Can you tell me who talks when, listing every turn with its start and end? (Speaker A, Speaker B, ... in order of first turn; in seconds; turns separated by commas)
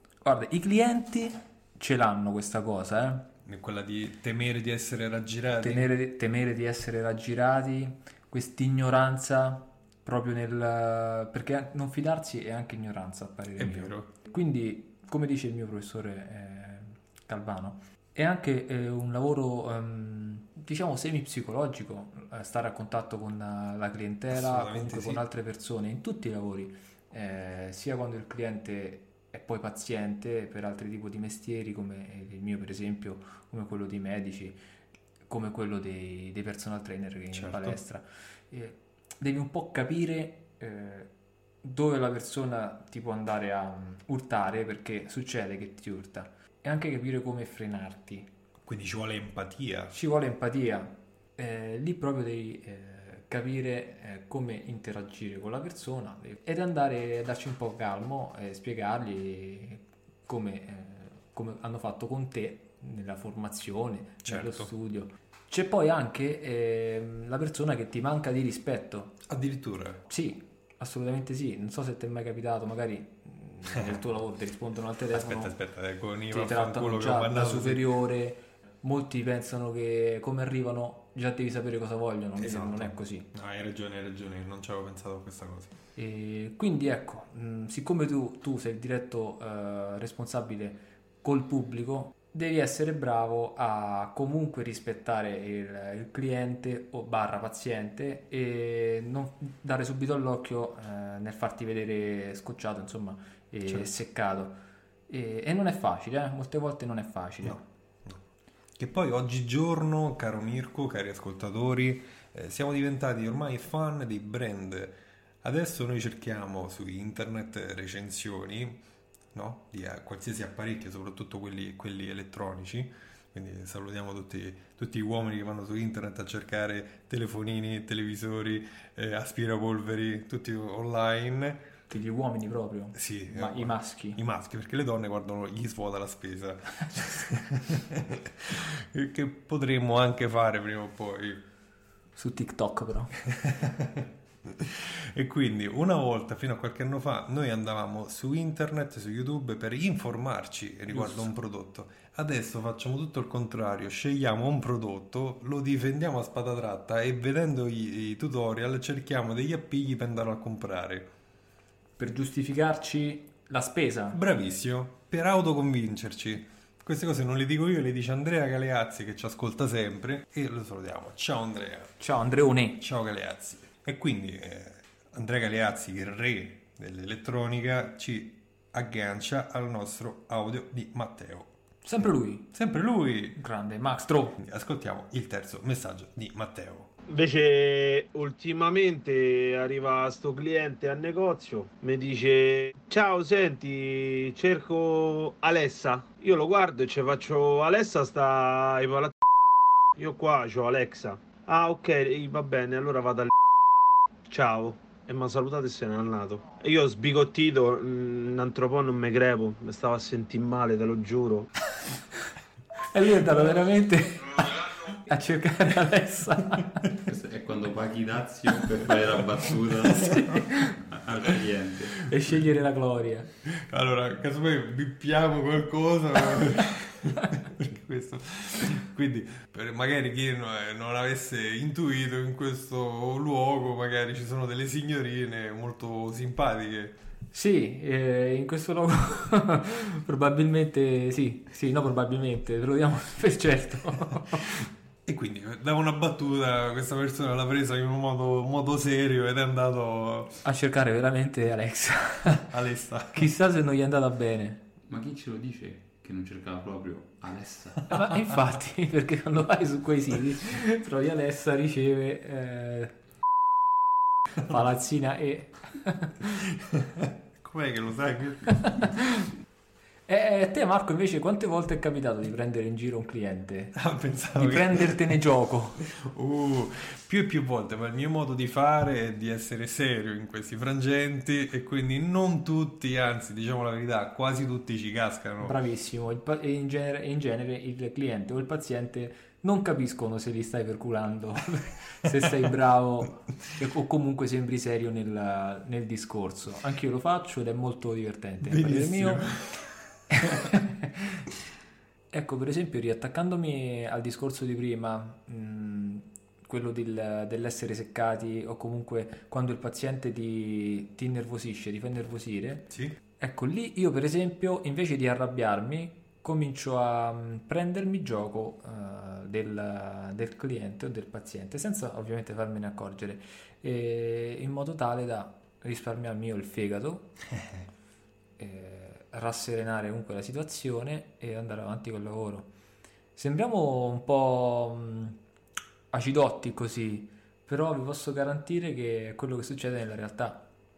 Speaker A: 0.2-3.3, Speaker B: 3.4-5.9, Speaker A: 5.6-34.6, Speaker B: 13.6-14.1, Speaker B: 24.3-25.2, Speaker A: 35.3-41.1, Speaker B: 37.3-37.8, Speaker A: 41.6-48.3, Speaker B: 48.6-50.0, Speaker A: 49.9-69.2, Speaker B: 64.2-64.7, Speaker B: 69.3-70.0, Speaker A: 70.1-75.5, Speaker B: 75.1-77.8, Speaker A: 76.3-83.3, Speaker B: 82.4-85.7, Speaker A: 86.0-104.6, Speaker A: 105.1-107.7, Speaker B: 107.4-108.2, Speaker B: 108.8-118.8, Speaker B: 119.3-131.7, Speaker A: 131.9-134.2, Speaker B: 132.9-141.4, Speaker A: 142.2-143.1, Speaker B: 143.3-161.1, Speaker A: 150.9-151.3, Speaker A: 162.0-164.2, Speaker B: 164.1-172.0, Speaker A: 172.0-172.8, Speaker B: 172.8-181.5, Speaker A: 181.8-182.5, Speaker B: 182.5-183.4, Speaker A: 183.3-184.4, Speaker B: 184.4-186.9, Speaker C: 187.1-199.1, Speaker C: 199.9-203.3, Speaker C: 204.3-211.5, Speaker A: 212.9-216.8, Speaker D: 217.1-222.0, Speaker A: 220.0-220.7, Speaker A: 222.1-223.3, Speaker B: 223.5-237.0, Speaker A: 237.3-244.5, Speaker B: 245.1-250.4, Speaker A: 250.4-252.5, Speaker B: 252.4-253.3, Speaker A: 253.1-254.7, Speaker D: 254.8-258.0, Speaker A: 257.9-262.9, Speaker A: 264.4-266.2, Speaker B: 266.6-268.8, Speaker A: 268.6-269.2, Speaker A: 270.1-273.8, Speaker B: 273.7-275.2, Speaker A: 274.3-275.8, Speaker B: 275.8-285.6, Speaker A: 285.4-299.2, Speaker B: 298.4-299.5, Speaker A: 300.1-300.9, Speaker A: 302.1-327.1, Speaker B: 312.7-312.9, Speaker A: 328.4-332.5, Speaker A: 333.1-335.2, Speaker A: 335.9-340.5